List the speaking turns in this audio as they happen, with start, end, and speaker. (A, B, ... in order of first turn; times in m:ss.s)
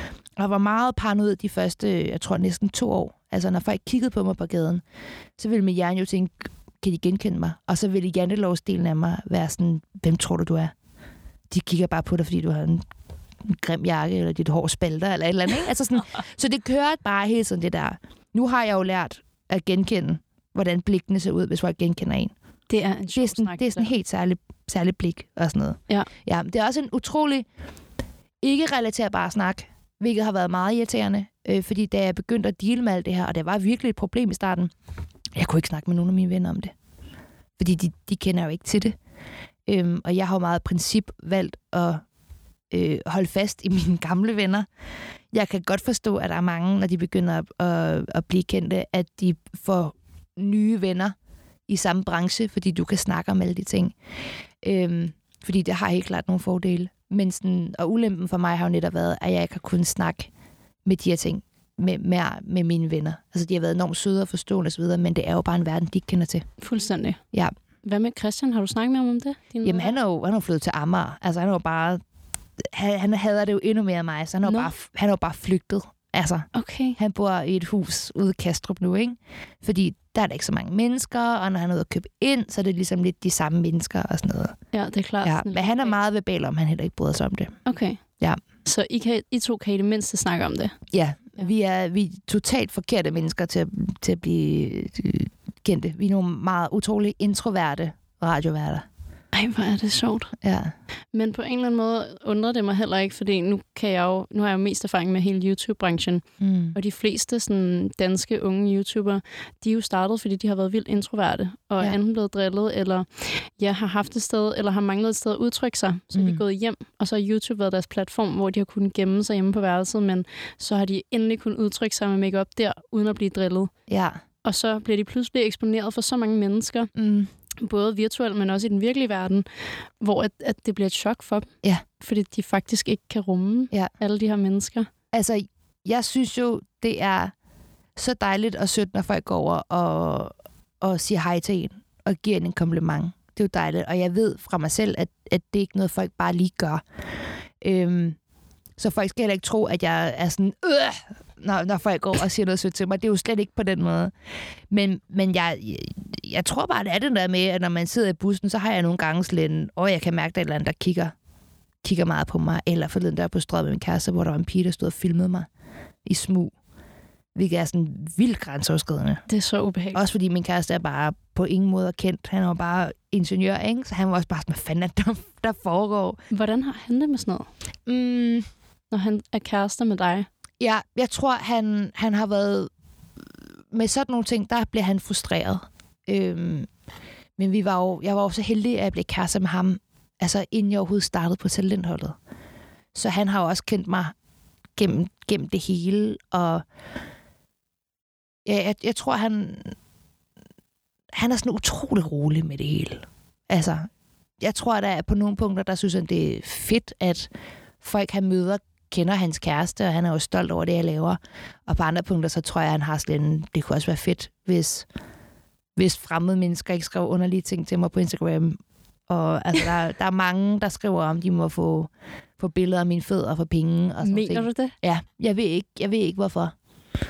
0:00.4-0:04.8 A
0:05.4-0:10.7 A
0:11.5-0:12.8 A
0:13.4-0:22.3 A
0:22.7-0:23.9 B
0:23.1-0:27.4 A
0:28.4-0:34.7 A
0:35.4-0:36.7 A
0:37.6-0:38.9 A
0:39.7-0:42.0 A
0:42.7-0:44.7 A
0:45.3-0:51.1 A
0:51.7-0:53.9 A
0:54.6-1:00.3 A
1:00.8-1:06.4 A
1:06.6-1:07.2 B
1:07.8-1:10.0 B
1:09.6-1:12.0 A
1:12.6-1:24.6 A
1:14.4-1:14.7 B
1:16.5-1:17.0 B
1:24.7-1:26.0 B
1:25.2-1:27.6 A
1:27.6-1:28.0 B
1:28.6-1:30.8 B
1:30.9-1:38.8 A
1:39.3-1:40.3 B
1:40.4-1:40.7 A
1:41.1-2:03.7 B
1:46.4-1:46.8 A
1:56.1-1:56.4 A
2:03.9-2:04.2 A
2:04.4-2:06.9 B
2:06.9-2:07.3 A
2:07.6-2:11.5 B
2:12.0-2:14.9 B
2:15.1-2:17.3 A
2:18.0-2:26.8 A
2:27.6-2:28.2 A
2:28.8-2:34.1 A
2:34.7-2:41.1 A
2:41.8-2:45.5 A
2:46.0-2:46.5 A
2:47.3-2:49.2 A
2:49.3-2:50.0 B
2:49.9-2:56.2 A
2:56.3-2:57.5 B
2:57.9-2:58.4 A
2:58.9-3:00.3 B
3:00.6-3:02.7 A
3:03.7-3:06.7 A
3:07.4-3:12.2 A
3:12.9-3:14.1 A
3:14.8-3:16.6 A
3:18.4-3:19.7 A
3:21.1-3:23.9 A
3:24.4-3:27.3 A
3:27.8-3:34.8 A
3:35.8-3:46.5 A
3:44.0-3:44.7 B